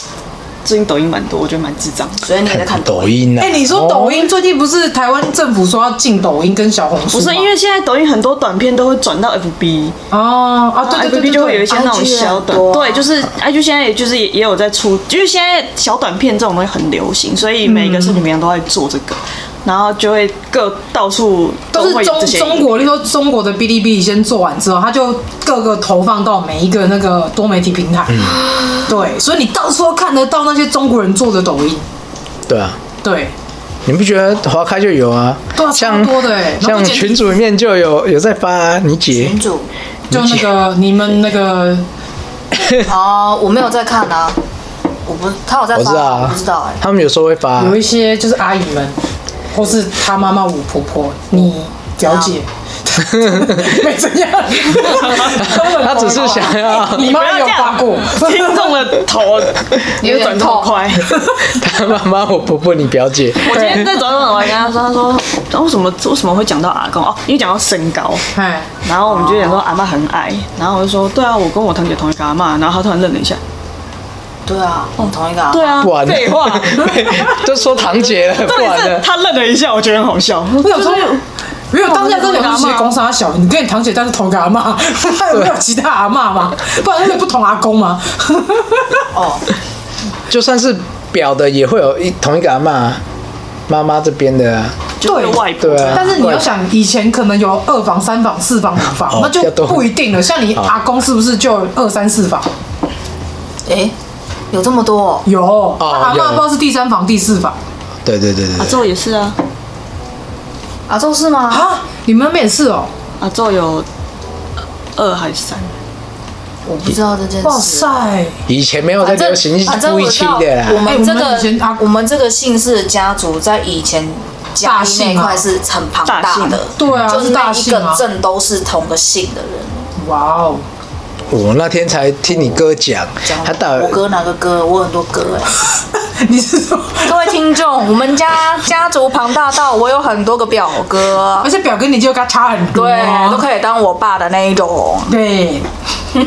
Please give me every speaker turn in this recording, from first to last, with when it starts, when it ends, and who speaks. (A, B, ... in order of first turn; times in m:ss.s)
0:00.6-0:02.2 A
0:02.2-0:03.2 B
0:02.5-0:04.3 C
0:03.4-0:07.5 D
0:07.1-0:10.0 A
0:10.1-0:11.7 D
0:10.8-0:22.8 A
0:11.7-0:13.0 B
0:17.6-0:18.2 D
0:21.7-0:28.2 D
0:28.1-0:28.4 C
0:28.4-0:28.9 B
0:28.9-0:31.8 D
0:32.5-0:32.8 C
0:33.0-0:33.3 D
0:33.9-0:39.4 C
0:35.6-0:37.4 D
0:39.1-0:39.7 B
0:40.1-0:40.5 C
0:40.1-0:41.8 D
0:42.8-0:44.4 B
0:45.1-0:46.8 B
0:45.7-0:47.8 C
0:47.6-0:49.0 D
0:49.5-0:58.7 D
0:52.0-0:52.4 B
0:53.2-0:53.8 C
0:55.1-0:57.2 C
0:56.7-1:01.2 A
1:00.0-1:00.9 B
1:01.4-1:03.9 C
1:03.4-1:08.3 A
1:03.5-1:03.9 D
1:08.4-1:08.7 D
1:08.8-1:13.4 A
1:09.1-1:09.6 B
1:14.5-1:15.9 B
1:15.0-1:21.2 A
1:15.8-1:19.1 C
1:20.6-1:29.1 D
1:21.8-1:22.9 A
1:29.1-1:29.5 B
1:30.3-1:33.0 C
1:33.7-1:34.8 C
1:35.0-1:36.2 A
1:35.1-1:42.5 D
1:35.6-1:36.5 C
1:39.1-1:39.9 C
1:43.7-1:43.9 B
1:44.5-1:45.3 B
1:45.3-1:47.6 D
1:45.8-1:46.5 C
1:48.0-1:48.8 C
1:48.6-1:49.4 A
1:50.9-1:51.7 B
1:51.5-1:52.9 D
1:53.2-1:53.9 A
1:55.0-1:55.7 A
1:56.7-1:58.0 B
1:57.4-1:58.4 D
1:58.5-2:00.9 C
1:59.0-2:09.9 B
2:00.8-2:01.8 D
2:04.6-2:05.4 D
2:06.1-2:06.6 A
2:06.8-2:08.0 D
2:10.0-2:10.6 D
2:11.3-2:14.0 C
2:13.2-2:15.5 B
2:16.0-2:17.2 D
2:17.0-2:21.5 B
2:21.4-2:23.4 D
2:22.7-2:25.1 B
2:25.1-2:25.7 D